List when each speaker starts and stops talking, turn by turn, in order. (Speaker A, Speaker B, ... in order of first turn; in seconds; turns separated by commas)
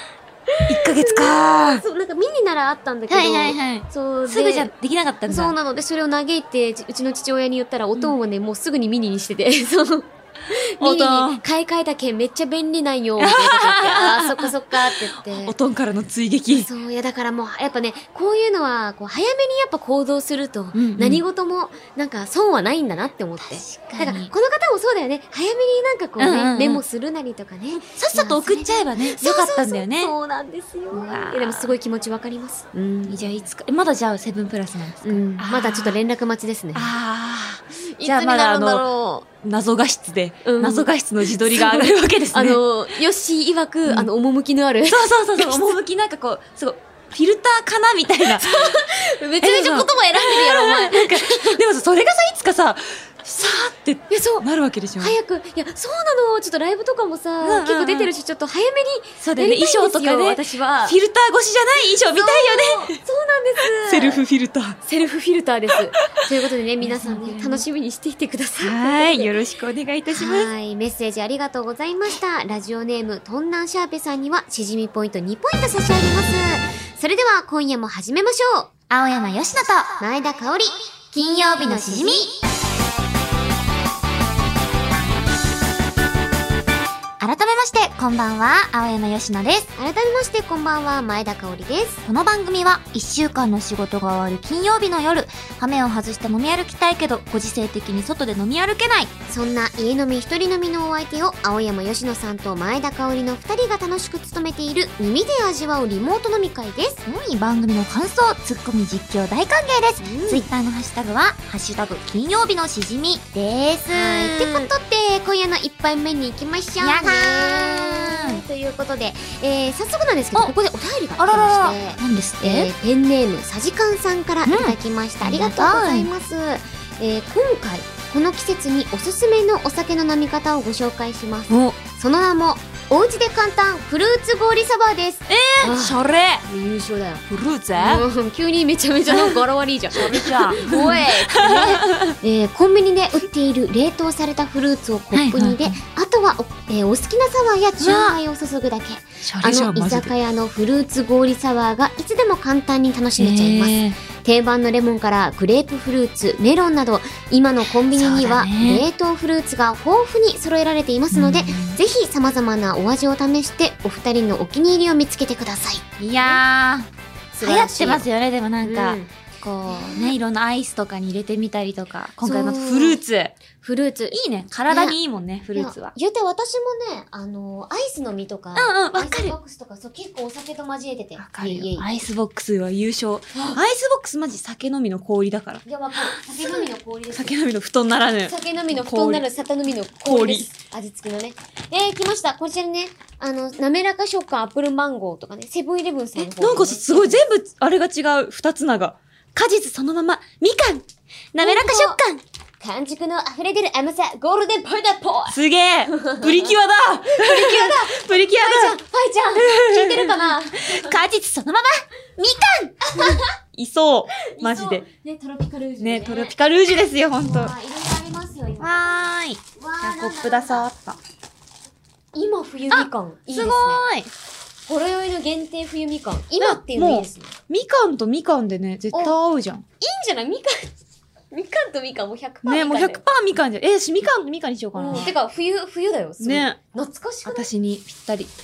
Speaker A: 0.5-4.7, Speaker B: 0.7-1.8, Speaker C: 3.2-3.8, Speaker B: 3.6-5.5, Speaker A: 5.3-15.6, Speaker B: 10.8-11.4, Speaker B: 13.2-16.7, Speaker A: 16.5-33.3, Speaker B: 20.8-21.2, Speaker C: 23.6-24.3, Speaker B: 26.2-26.8, Speaker B: 27.9-30.1, Speaker B: 31.1-31.6, Speaker B: 33.0-36.0, Speaker A: 35.0-36.9, Speaker B: 36.7-38.9, Speaker A: 37.9-39.2, Speaker B: 39.4-42.6, Speaker A: 40.4-45.8, Speaker B: 44.9-48.9, Speaker A: 48.3-51.6, Speaker B: 49.4-55.1, Speaker A: 54.1-54.5, Speaker A: 55.0-61.0, Speaker B: 57.4-58.1, Speaker B: 59.2-63.0, Speaker A: 61.8-64.2, Speaker B: 63.8-64.8, Speaker A: 64.9-69.3, Speaker B: 66.8-67.7, Speaker B: 68.6-70.5, Speaker A: 70.1-78.7, Speaker C: 78.9-80.0, Speaker A: 80.0-82.3, Speaker C: 81.1-82.4, Speaker C: 87.2-89.7, Speaker A: 89.8-92.0, Speaker C: 92.0-99.1, Speaker A: 99.3-107.0, Speaker C: 107.1-114.7, Speaker A: 110.0-110.5, Speaker A: 113.9-166.4, Speaker C: 116.8-118.4, Speaker B: 121.2-122.7, Speaker B: 124.5-124.8, Speaker C: 125.3-126.1, Speaker B: 131.5-131.8, Speaker B: 135.3-136.4, Speaker B: 137.3-138.1, Speaker B: 139.1-139.4, Speaker B: 139.9-142.2, Speaker B: 145.1-145.8, Speaker B: 147.8-148.2, Speaker B: 149.2-150.2, Speaker B: 153.2-154.0, Speaker B: 157.9-158.8, Speaker B: 161.1-161.8, Speaker C: 166.0-166.8, Speaker B: 166.1-166.4, Speaker A: 167.3-168.0, Speaker C: 167.4-171.8, Speaker A: 168.6-169.1, Speaker A: 169.7-170.1, Speaker B: 169.7-170.2, Speaker B: 171.7-173.4, Speaker A: 172.2-173.0, Speaker A: 173.6-174.2, Speaker B: 174.1-175.9, Speaker A: 174.7-175.0, Speaker A: 175.5-181.9, Speaker B: 178.6-179.3, Speaker B: 181.2-189.2, Speaker A: 185.7-187.4, Speaker A: 188.2-197.2, Speaker B: 190.0-190.5, Speaker B: 196.2-202.2, Speaker A: 201.4-202.0, Speaker A: 202.6-206.5, Speaker B: 205.3-208.8, Speaker A: 207.1-210.9, Speaker B: 209.4-210.2, Speaker C: 210.8-212.7, Speaker A: 212.8-213.3, Speaker B: 213.5-214.8, Speaker A: 214.3-216.3, Speaker B: 215.8-217.5, Speaker A: 217.2-219.0, Speaker C: 218.7-219.4, Speaker A: 219.6-220.7, Speaker B: 219.8-221.0, Speaker A: 222.1-223.8, Speaker B: 222.7-224.1, Speaker A: 224.7-227.3, Speaker B: 226.4-229.7, Speaker A: 229.8-230.7, Speaker A: 231.3-233.0, Speaker B: 232.4-235.1, Speaker A: 234.7-237.5, Speaker B: 236.2-236.6, Speaker B: 237.3-238.3